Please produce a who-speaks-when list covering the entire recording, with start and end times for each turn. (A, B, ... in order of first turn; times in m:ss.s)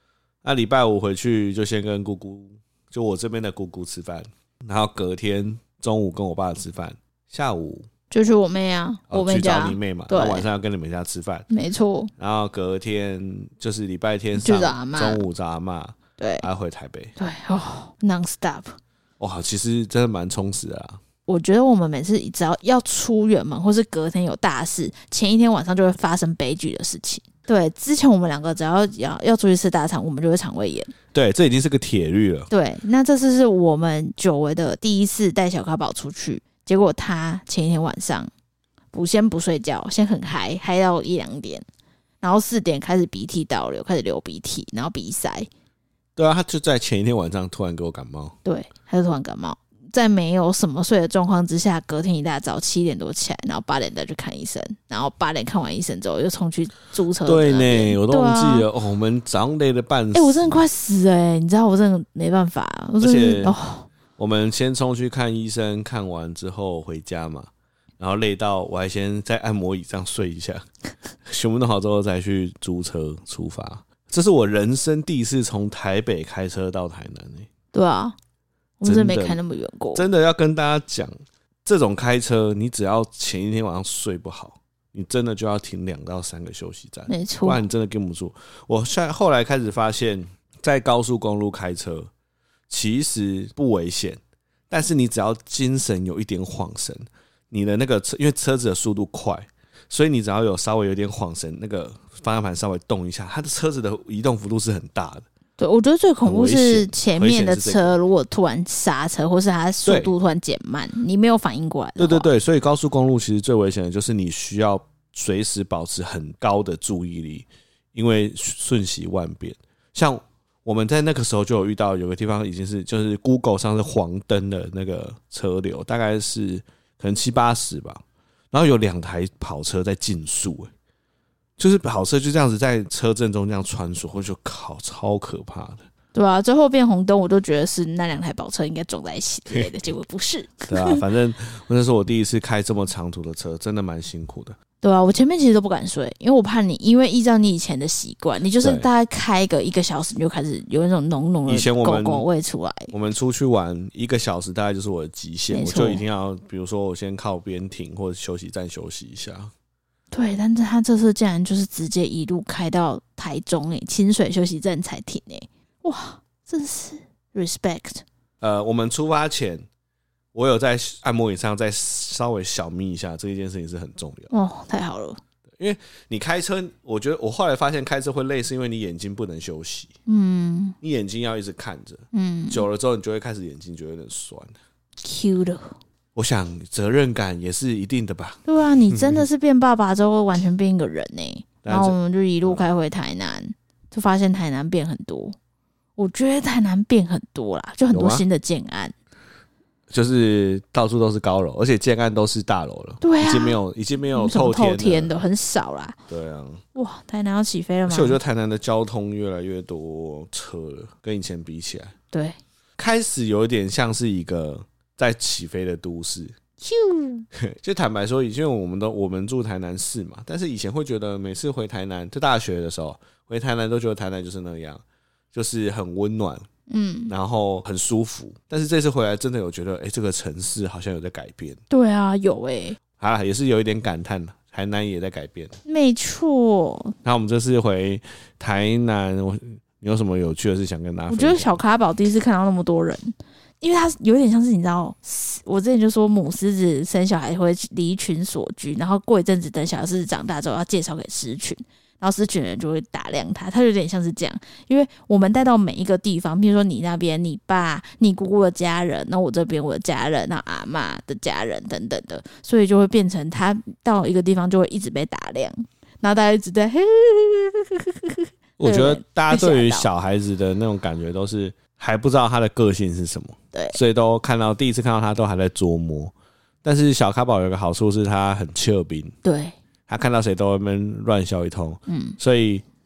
0:00.4-0:07.9 A
0:08.1-0:10.5 B
0:09.1-0:11.5 A
0:11.5-0:12.1 B
0:12.2-0:17.1 A
0:14.4-0:15.2 B
0:16.2-0:16.5 B
0:17.2-0:18.8 B
0:19.2-0:21.0 A
0:21.3-0:30.9 B
0:31.1-0:32.5 A
0:32.5-0:38.3 B
0:38.9-0:41.6 B
0:42.2-0:45.5 B
0:46.2-0:48.3 A
0:48.4-0:58.7 B
0:57.2-1:00.6 A
1:00.1-1:03.9 B
1:03.0-1:03.6 A
1:04.2-1:10.6 A
1:11.2-1:17.5 A
1:17.7-1:18.1 B
1:18.8-1:20.0 B
1:18.8-1:19.4 A
1:19.9-1:21.1 A
1:21.6-1:32.1 A
1:27.1-1:27.6 B
1:32.7-1:45.2 A
1:45.6-1:52.3 B
1:46.2-1:48.0 A
1:49.8-1:50.1 A
1:52.0-2:10.7 A
2:11.6-2:15.8 A
2:16.1-2:21.0 B
2:20.7-2:24.6 A
2:24.8-2:32.9 B
2:28.6-2:28.9 A
2:31.5-2:32.2 A
2:32.9-2:39.5 A
2:35.5-2:36.0 B
2:40.1-2:48.0 B
2:48.4-2:49.6 A
2:50.3-2:54.3 A
2:54.3-2:55.2 B
2:55.6-2:59.9 A
3:00.1-3:00.8 B
3:00.8-3:04.6 A
3:02.1-3:02.6 B
3:05.0-3:05.8 B
3:06.1-3:09.2 A
3:08.5-3:15.4 B
3:11.6-3:12.6 A
3:16.0-3:18.9 B
3:17.9-3:18.2 A
3:19.9-3:25.1 A
3:23.0-3:23.6 B
3:24.1-3:26.0 B
3:26.1-3:26.6 A
3:26.7-3:28.2 B
3:27.9-3:31.9 A
3:32.1-3:32.4 B
3:32.8-3:36.3 A
3:36.6-3:37.2 B
3:37.3-3:46.4 A
3:46.7-3:47.1 B
3:47.1-3:51.6 A
3:51.7-3:52.8 B
3:53.0-3:55.6 A
3:55.6-3:56.9 B
3:57.0-4:01.6 A
4:01.1-4:29.9 B
4:28.6-4:36.1 A
4:36.6-4:39.1 A
4:39.2-4:39.5 B
4:39.9-4:42.6 A
4:41.9-4:42.2 B